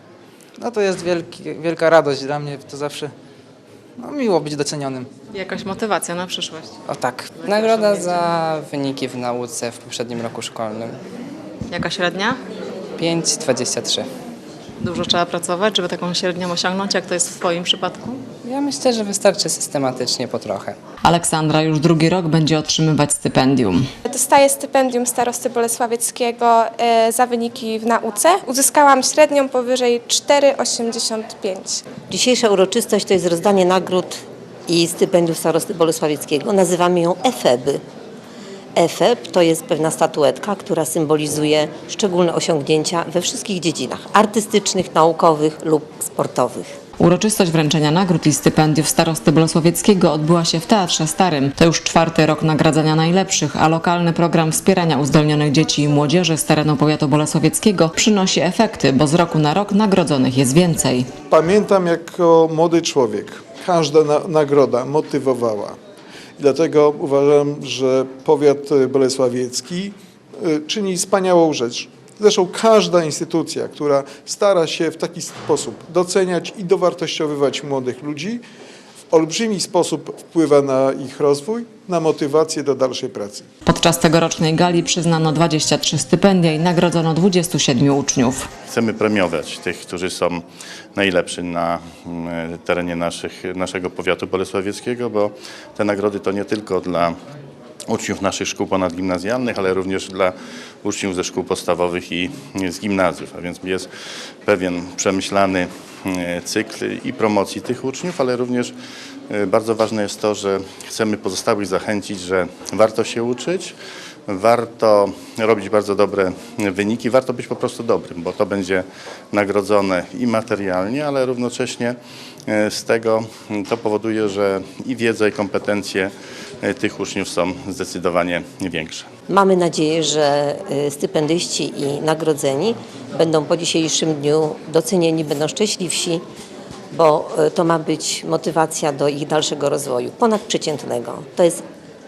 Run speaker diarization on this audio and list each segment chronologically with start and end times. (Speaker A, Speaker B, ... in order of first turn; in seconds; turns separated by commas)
Speaker A: 0.6-3.1, Speaker A: 4.0-5.1, Speaker B: 5.4-6.7, Speaker C: 6.9-11.0, Speaker B: 11.7-12.3, Speaker C: 13.0-14.1, Speaker B: 14.8-18.1, Speaker C: 18.4-20.8, Speaker B: 21.0-23.9, Speaker D: 24.1-31.9, Speaker E: 32.1-37.8, Speaker E: 38.8-46.7, Speaker B: 47.0-61.1, Speaker F: 61.3-65.8, Speaker F: 66.4-78.4, Speaker F: 79.1-83.5, Speaker B: 83.7-88.5, Speaker G: 88.7-90.4, Speaker G: 91.0-97.2, Speaker G: 97.9-103.9, Speaker G: 104.5-108.7, Speaker G: 109.3-113.7, Speaker G: 114.3-129.1, Speaker E: 129.3-136.2, Speaker E: 136.9-141.6